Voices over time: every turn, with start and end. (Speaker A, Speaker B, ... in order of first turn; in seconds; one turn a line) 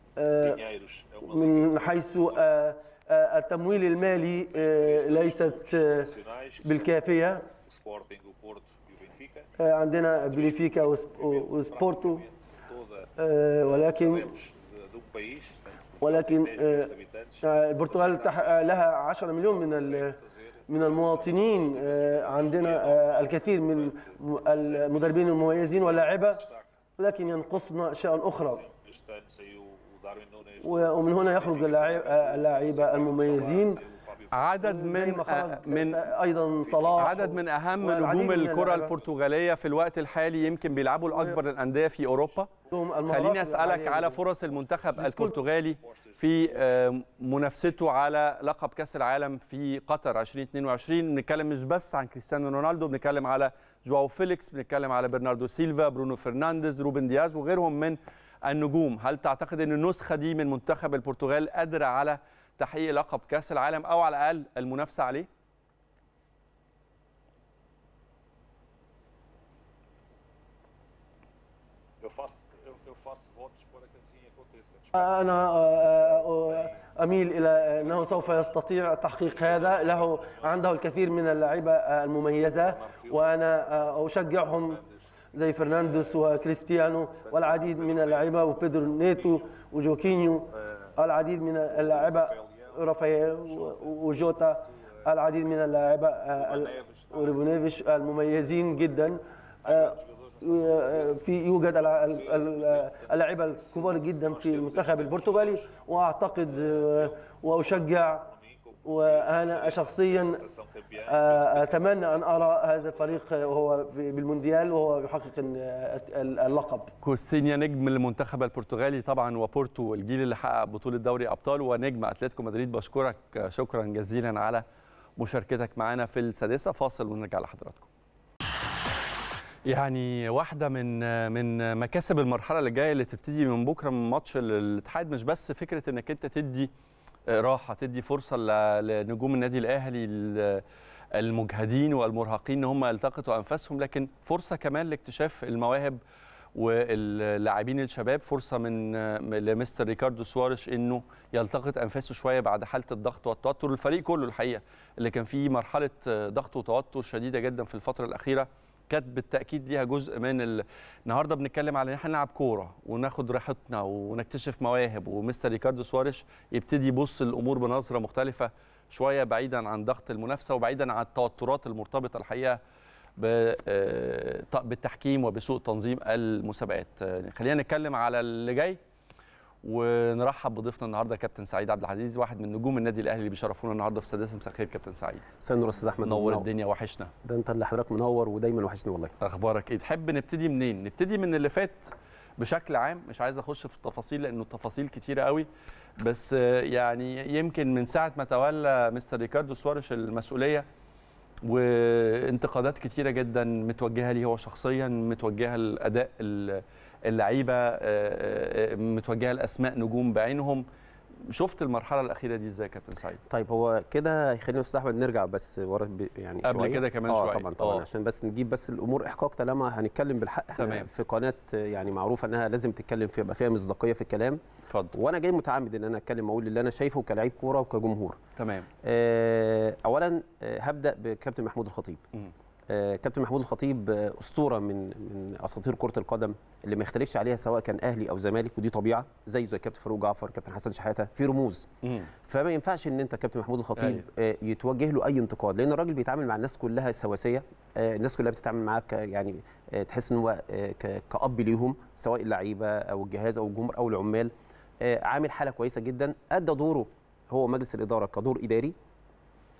Speaker A: 0.2-0.6
Speaker B: 0.4-2.5
Speaker A: 1.2-6.1
Speaker B: 3.7-9.5
Speaker A: 6.6-7.5
Speaker A: 9.6-12.2
Speaker B: 10.1-13.1
Speaker A: 13.2-14.3
Speaker B: 13.6-26.7
Speaker A: 16.0-20.1
Speaker A: 20.7-26.4
Speaker A: 27.0-28.6
Speaker B: 28.3-34.5
Speaker A: 30.6-33.8
Speaker C: 34.3-36.1
Speaker A: 34.6-39.0
Speaker B: 36.6-37.4
Speaker C: 37.0-42.5
Speaker B: 42.0-42.7
Speaker A: 42.7-44.2
Speaker C: 43.0-65.3
Speaker B: 44.0-46.9
Speaker A: 45.0-45.4
Speaker B: 72.0-81.5
Speaker A: 74.9-84.8
Speaker B: 82.4-86.6
Speaker A: 85.3-108.3
Speaker B: 87.2-89.7
Speaker B: 90.5-90.9
Speaker B: 91.7-95.1
Speaker B: 96.3-97.7
Speaker B: 98.3-98.6
Speaker B: 99.6-113.5
Speaker A: 108.8-110.4
Speaker A: 111.0-116.9
Speaker C: 117.0-124.6
Speaker C: 125.2-127.9
Speaker C: 129.6-136.7
Speaker C: 137.3-146.0
Speaker C: 146.6-172.6
Speaker C: 173.2-178.8
Speaker C: 179.6-185.3
Speaker D: 185.4-186.4
Speaker C: 186.0-187.1
Speaker D: 187.2-189.1
Speaker C: 189.2-195.5
Speaker C: 196.0-200.7
Speaker C: 201.4-210.6
Speaker C: 211.3-213.2
Speaker D: 213.3-224.4
Speaker C: 216.4-217.9
Speaker C: 220.6-220.9
Speaker C: 224.7-224.9
Speaker D: 224.9-228.2
Speaker C: 228.4-228.7
Speaker D: 228.8-232.0
Speaker D: 232.7-241.7
Speaker D: 242.2-258.7
Speaker C: 243.8-244.0